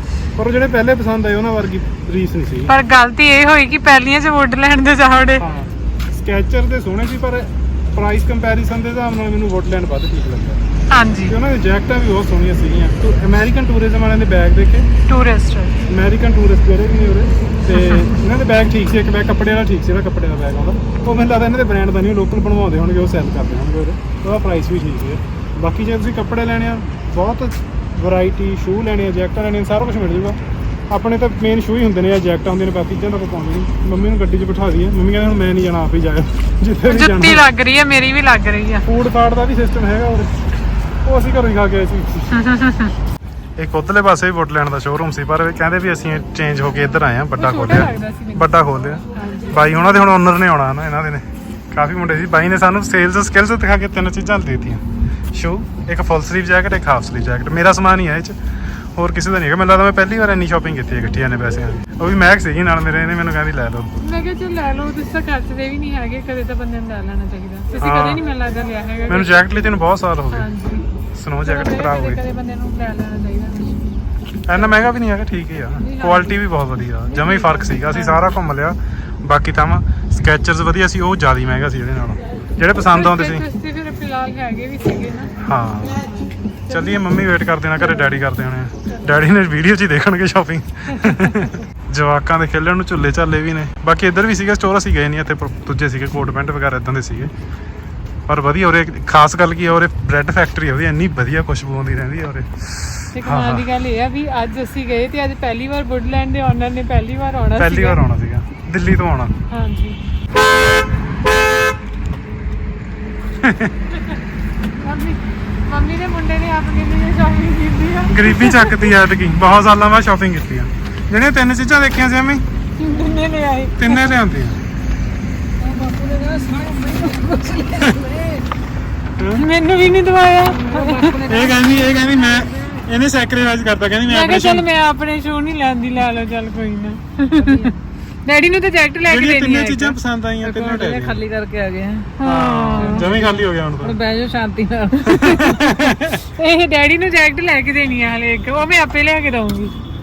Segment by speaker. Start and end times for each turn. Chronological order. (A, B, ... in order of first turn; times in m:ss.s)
0:00.4-0:02.7 A
0:02.7-0:05.4 B
0:05.4-0:10.6 A
0:10.9-0:11.4 B
0:11.3-0:14.9 A
0:15.1-0:15.8 B
0:15.9-0:37.4 A
0:17.7-0:18.1 B
0:36.9-0:38.8 B
0:38.8-0:40.3 A
0:41.0-0:42.4 A
0:42.3-0:42.9 B
0:43.6-0:58.4 A
0:47.4-0:48.5 B
0:49.1-0:50.1 B
0:59.0-1:03.9 A
1:04.0-1:09.5 B
1:07.8-1:08.2 A
1:09.1-1:10.5 A
1:10.3-1:10.9 B
1:11.1-1:12.2 A
1:11.4-1:13.9 B
1:14.5-1:23.5 A
1:15.8-1:16.4 B
1:17.1-1:18.3 B
1:22.7-1:25.3 B
1:25.4-1:26.1 A
1:25.8-1:27.0 B
1:26.7-1:37.3 A
1:31.0-1:31.5 B
1:38.3-1:43.7 A
1:43.1-1:48.0 B
1:47.6-1:49.3 A
1:49.5-1:50.0 B
1:53.4-1:53.7 A
1:54.8-1:58.9 B
1:58.1-2:02.4 A
2:02.8-2:04.1 B
2:03.8-2:04.6 A
2:05.6-2:08.5 C
2:09.2-2:09.4 A
2:09.3-2:11.1 B
2:10.4-2:12.8 C
2:11.2-2:14.6 A
2:14.1-2:17.6 B
2:17.3-2:17.8 C
2:18.2-2:20.0 B
2:19.1-2:21.2 A
2:20.4-2:22.2 C
2:22.2-2:23.1 B
2:22.2-2:24.0 A
2:22.7-2:25.6 C
2:25.0-2:26.2 A
2:25.1-2:29.7 B